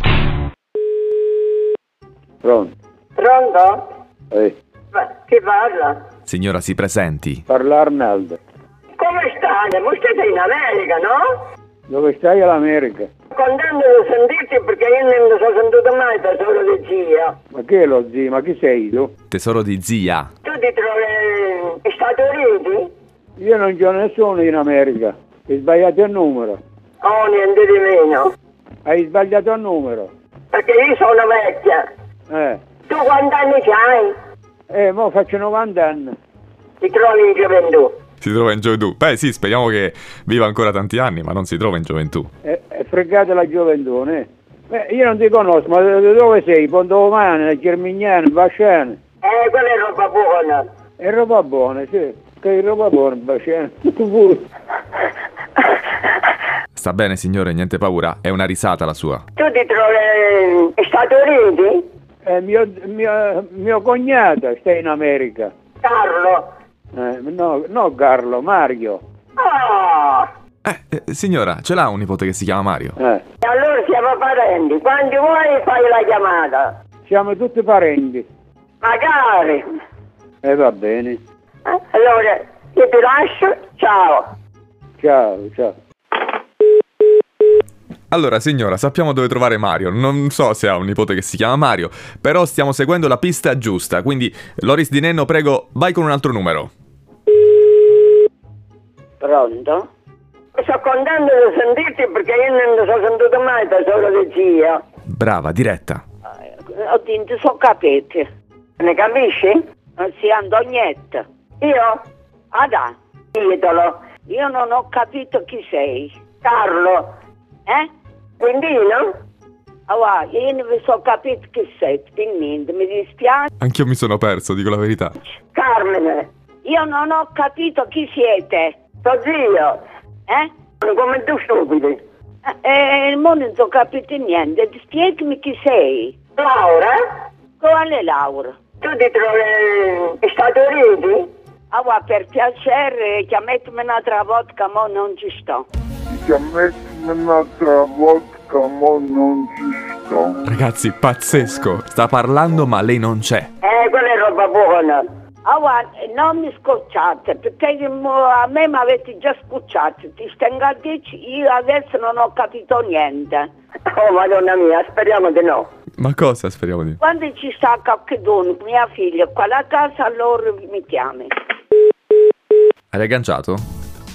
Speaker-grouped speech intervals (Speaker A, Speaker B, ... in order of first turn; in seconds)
Speaker A: 2.4-2.7, 7.5-8.4, 11.9-13.1, 17.5-19.1, 23.4-26.6, 28.9-30.1, 32.3-32.6, 34.7-36.1, 42.4-49.0, 51.0-54.4, 62.2-65.5, 66.9-69.0, 73.0-73.2, 77.1-78.2, 80.4-81.2, 85.0-85.7
Speaker B: 3.2-3.9, 4.9-6.0, 9.0-11.4, 13.3-17.4, 20.4-22.9, 27.0-28.3, 30.5-31.9, 32.9-34.2, 36.8-38.0, 49.2-50.7, 59.4-61.9, 65.8-66.5, 69.4-70.3, 73.4-76.7, 78.8-79.7, 81.7-84.3, 100.6-104.8, 108.8-109.6, 111.6-112.0, 113.3-114.1, 116.4-117.1, 118.4-119.1, 125.5-126.3, 128.9-129.8, 130.8-132.0, 136.3-137.0, 138.8-141.3, 153.6-155.0, 163.9-165.7
Speaker C: 6.3-7.4, 19.3-20.3, 38.2-42.3, 56.8-59.2, 70.7-73.0, 88.1-96.7, 105.1-106.0, 123.6-125.2, 150.4-153.5, 166.0-167.0, 172.9-173.6
Speaker D: 99.2-99.9, 106.8-108.2, 110.0-111.2, 112.5-112.9, 114.3-116.1, 119.9-123.5, 126.7-128.8, 132.5-136.2, 137.6-138.6, 141.7-145.7, 155.5-163.5, 167.0-171.3
Speaker E: 146.1-150.4